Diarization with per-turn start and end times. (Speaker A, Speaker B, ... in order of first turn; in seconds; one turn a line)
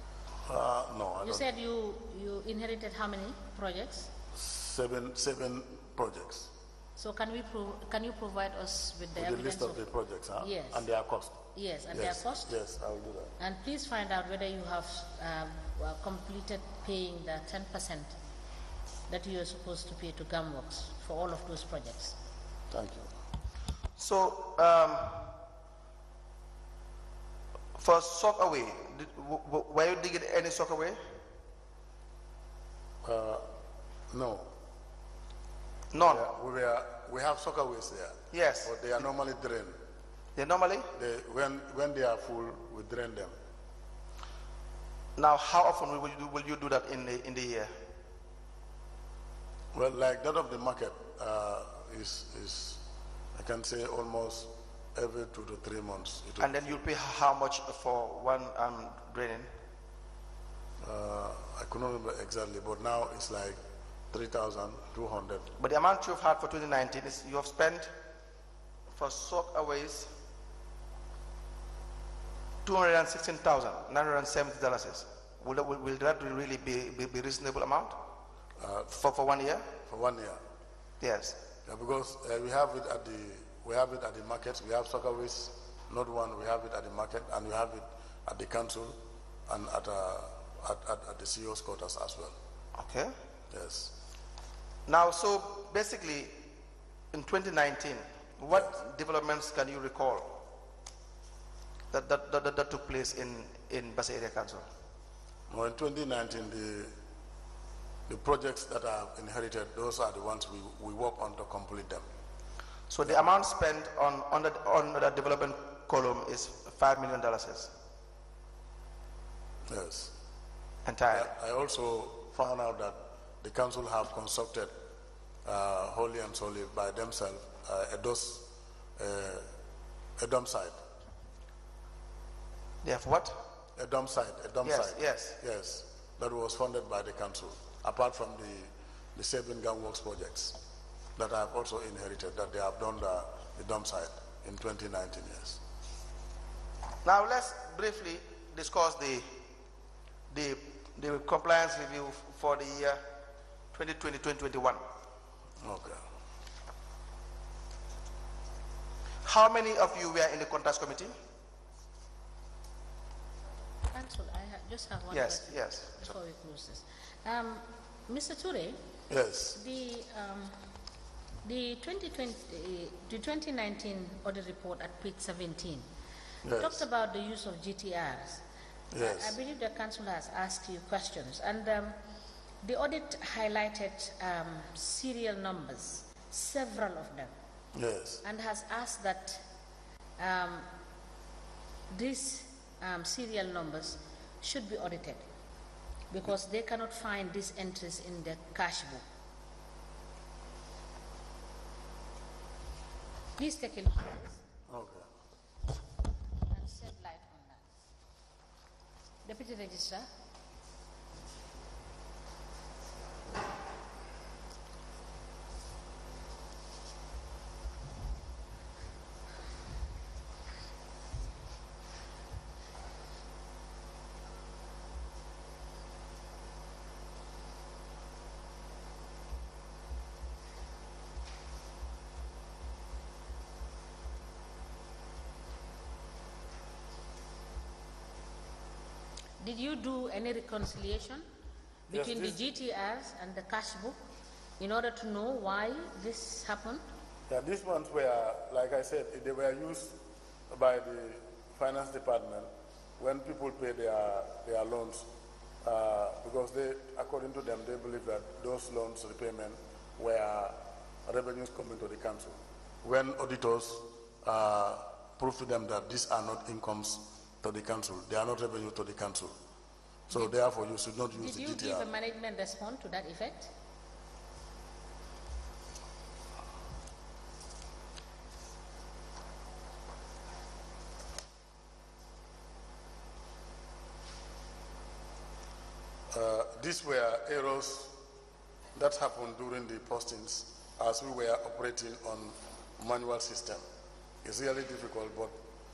Speaker A: 0.5-1.5
Speaker B: 1.2-4.1
Speaker A: 4.4-6.5
Speaker B: 7.0-9.9
Speaker A: 9.2-11.4
Speaker B: 10.4-10.9
Speaker B: 11.5-12.5
Speaker A: 11.9-13.3
Speaker B: 13.4-18.1
Speaker B: 19.1-22.2
Speaker A: 22.7-23.1
Speaker C: 24.0-25.4
Speaker C: 27.8-31.0
Speaker A: 33.0-33.5
Speaker A: 34.1-34.5
Speaker C: 35.9-36.3
Speaker A: 36.0-39.8
Speaker C: 38.3-38.7
Speaker C: 40.4-40.9
Speaker A: 40.9-43.4
Speaker C: 45.2-47.7
Speaker A: 49.7-52.8
Speaker A: 53.4-56.6
Speaker C: 56.4-59.5
Speaker A: 60.8-63.6
Speaker A: 64.1-65.5
Speaker C: 65.6-67.9
Speaker C: 69.0-70.1
Speaker C: 72.7-78.0
Speaker A: 78.6-79.0
Speaker C: 78.9-79.7
Speaker A: 79.8-80.4
Speaker C: 81.0-81.4
Speaker A: 81.7-89.0
Speaker A: 89.5-92.3
Speaker C: 92.8-93.1
Speaker A: 93.5-93.9
Speaker C: 94.9-96.4
Speaker C: 97.1-100.4
Speaker A: 98.5-98.8
Speaker C: 101.9-104.7
Speaker A: 105.5-106.9
Speaker A: 108.1-112.1
Speaker C: 112.9-117.7
Speaker A: 119.7-120.1
Speaker C: 120.8-121.3
Speaker A: 121.1-124.7
Speaker A: 125.5-129.5
Speaker A: 130.2-130.8
Speaker C: 132.8-133.3
Speaker A: 133.8-140.6
Speaker C: 134.6-135.4
Speaker A: 141.2-145.6
Speaker C: 147.1-149.3
Speaker C: 150.3-153.0
Speaker C: 153.7-154.8
Speaker A: 155.6-156.0
Speaker C: 159.2-161.1
Speaker B: 163.9-168.8
Speaker C: 165.1-166.1
Speaker A: 169.1-169.6
Speaker B: 169.5-170.6
Speaker B: 171.4-175.9
Speaker A: 176.4-176.8
Speaker B: 176.6-178.4
Speaker A: 178.9-179.4
Speaker B: 179.0-182.0
Speaker B: 182.6-187.3
Speaker A: 187.7-188.2
Speaker B: 188.2-189.4
Speaker B: 190.2-190.7
Speaker B: 191.9-195.2
Speaker B: 196.1-199.0
Speaker B: 203.4-204.4
Speaker A: 204.7-205.0
Speaker B: 206.5-207.6
Speaker B: 209.2-210.1
Speaker B: 239.4-241.2
Speaker B: 241.9-244.0
Speaker A: 241.9-242.4
Speaker B: 244.6-246.8
Speaker A: 247.3-250.0
Speaker A: 250.5-255.1
Speaker A: 255.6-269.4
Speaker A: 270.1-271.9
Speaker B: 271.1-273.5
Speaker A: 286.1-287.9
Speaker A: 288.8-293.6
Speaker A: 294.2-295.4